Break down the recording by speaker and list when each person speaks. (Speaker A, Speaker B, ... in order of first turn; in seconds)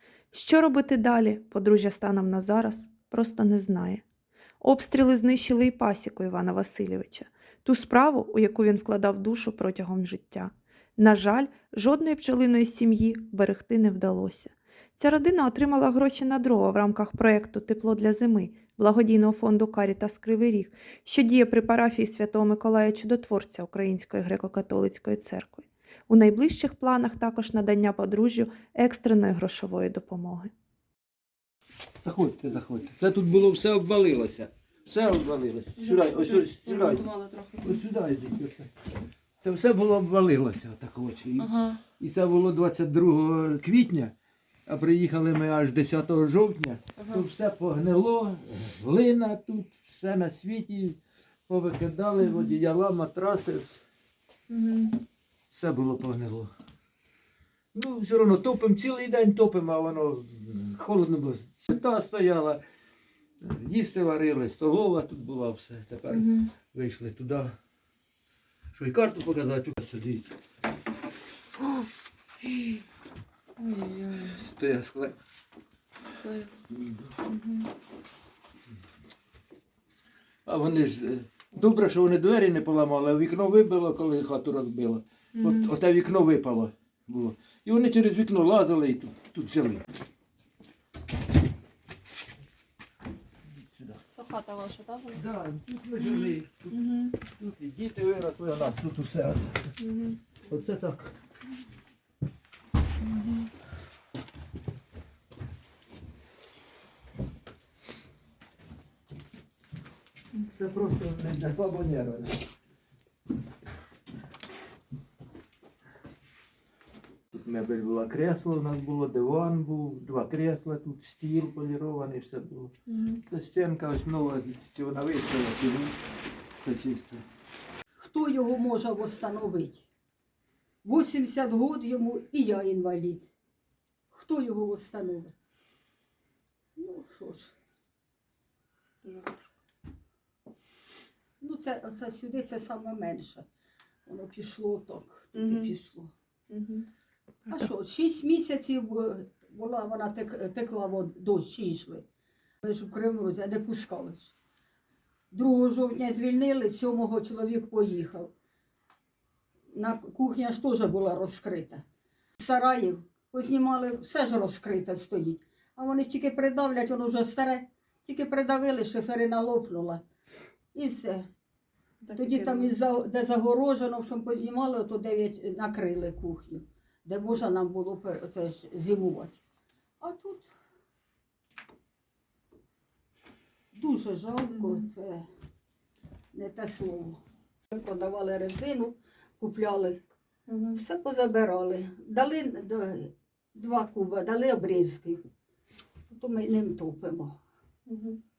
Speaker A: 0.3-4.0, 4.6-30.5
Speaker B: 32.0-37.1, 37.6-38.7, 39.4-44.1, 44.7-53.8, 55.5-56.5, 57.7-62.6, 63.4-67.6, 68.7-70.4, 74.3-75.2, 76.7-77.1, 80.5-89.9, 93.6-94.0, 95.1-99.7, 100.5-101.1, 110.5-112.4, 117.3-126.0, 126.6-127.2
Speaker C: 35.8-37.8, 41.4-41.8, 54.5-55.0, 66.1-66.5, 73.6-74.4, 76.2-76.5, 77.3-77.7, 85.4-85.7, 94.2-95.2, 96.0-97.2, 99.8-100.2, 103.1-103.5, 139.0-139.4, 145.3-145.7, 146.5-146.9, 172.0-172.8, 184.5-184.9, 190.5-190.8, 197.9-198.2
Speaker D: 128.0-129.9, 130.8-133.3, 134.1-135.3, 136.8-137.5, 141.4-143.4, 144.1-146.1, 147.5-152.1, 152.6-154.3, 155.3-158.3, 159.7-161.8, 162.4-170.0, 170.7-171.3, 172.2-179.4, 180.0-180.5, 183.7-185.3, 186.3-187.2, 187.7-190.0, 190.7-195.3, 196.1-197.4